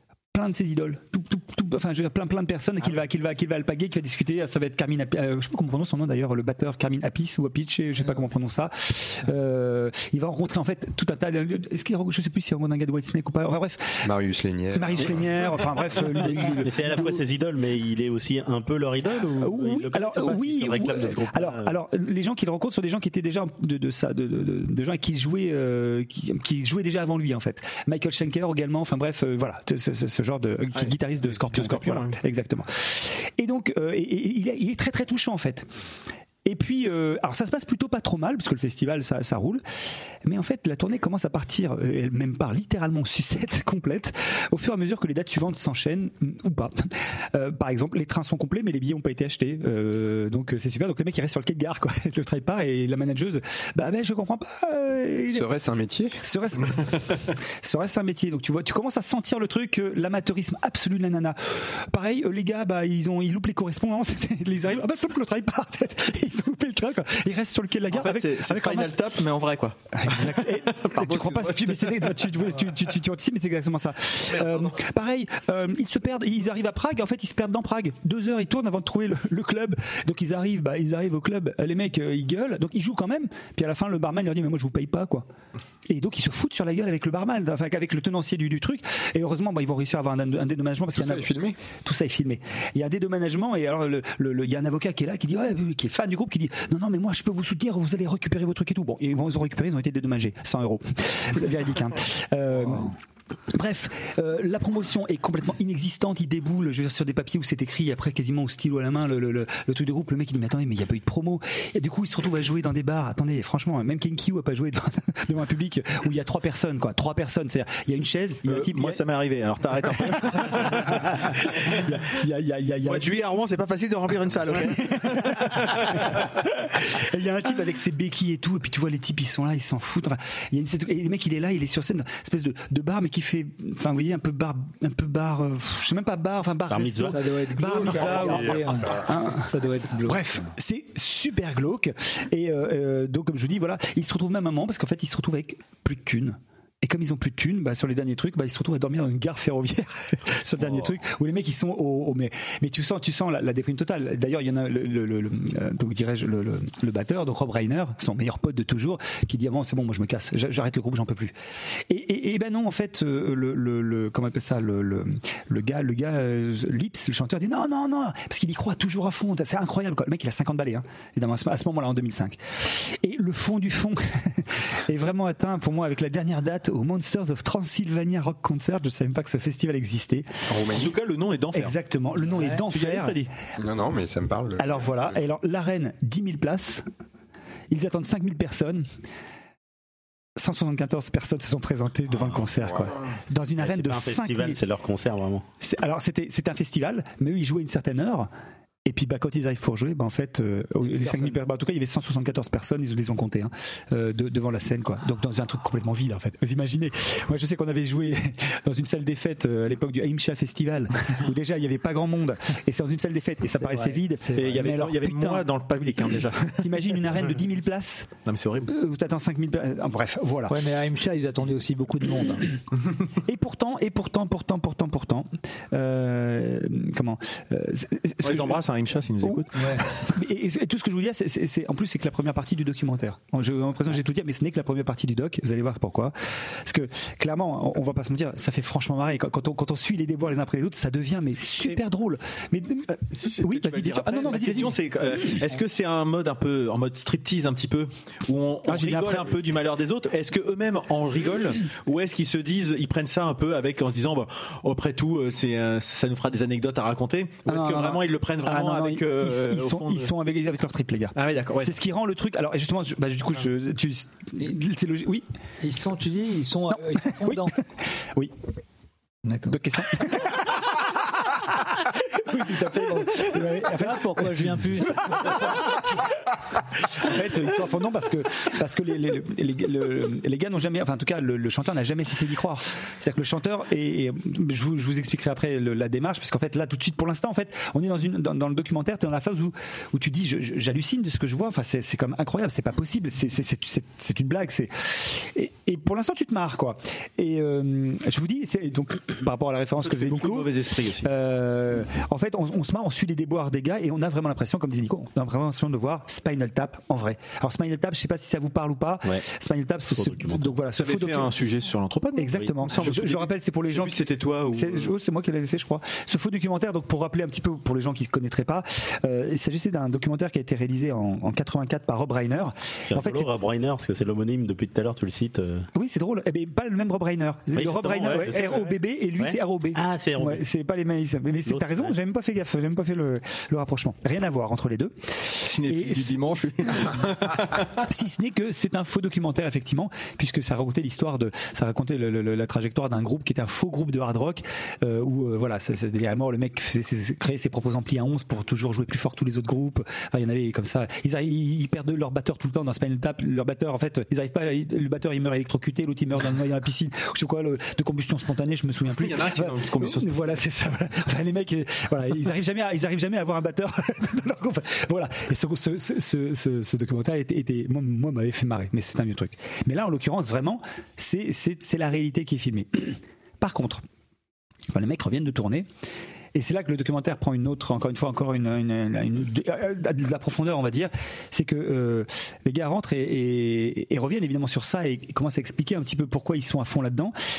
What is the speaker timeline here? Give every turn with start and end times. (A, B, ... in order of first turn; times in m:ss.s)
0:00.3-0:14.1 A
0:14.0-0:15.2 B
0:14.7-0:17.2 A
0:16.4-0:21.7 C
0:19.4-0:35.7 A
0:30.8-0:32.2 D
0:36.4-0:39.6 A
0:40.2-0:55.5 A
0:55.3-0:56.2 B
0:56.2-1:09.0 A
1:07.9-1:12.1 D
1:09.9-1:25.3 A
1:25.9-1:43.0 A
1:31.0-1:31.6 B
1:43.5-1:59.0 A
1:58.5-2:01.6 D
2:00.1-2:03.2 A
2:02.8-2:06.2 D
2:04.6-2:41.4 A
2:16.7-2:17.2 C
2:17.1-2:20.5 E
2:18.5-2:18.9 B
2:41.9-3:00.6 A
3:00.5-3:00.9 B
3:00.7-3:01.8 D
3:01.5-3:03.2 A
3:02.7-3:03.3 D
3:03.6-3:05.1 B
3:04.6-3:06.8 A
3:07.7-3:08.9 A
3:10.4-3:14.6 A
3:13.6-3:15.5 C
3:15.6-3:18.3 A
3:18.9-3:35.5 A
3:33.6-3:34.4 E
3:34.3-3:37.0 D
3:36.6-3:38.1 A
3:38.3-3:38.7 D
3:38.6-3:40.6 A
3:40.5-3:42.5 E
3:43.2-3:48.6 A
3:48.2-3:49.6 D
3:49.2-4:04.8 A
3:49.6-3:49.8 E
4:02.9-4:20.1 D
4:08.7-4:09.3 A
4:17.5-4:25.3 A
4:21.2-4:21.8 D
4:25.6-4:27.6 E
4:26.7-4:27.6 A
4:29.3-4:29.6 E
4:29.5-4:36.0 A
4:33.6-4:35.8 E
4:36.8-5:11.3 A
4:59.8-5:01.1 D
5:09.9-5:10.5 C
5:10.8-5:14.9 D
5:12.2-5:23.3 A
5:22.9-5:25.7 C
5:25.7-5:37.0 A
5:27.5-5:30.4 C
5:31.5-5:31.9 C
5:35.4-5:37.7 D
5:37.8-6:13.8 A
5:59.0-6:00.3 D
6:14.7-6:15.7 A
6:16.3-6:27.2 A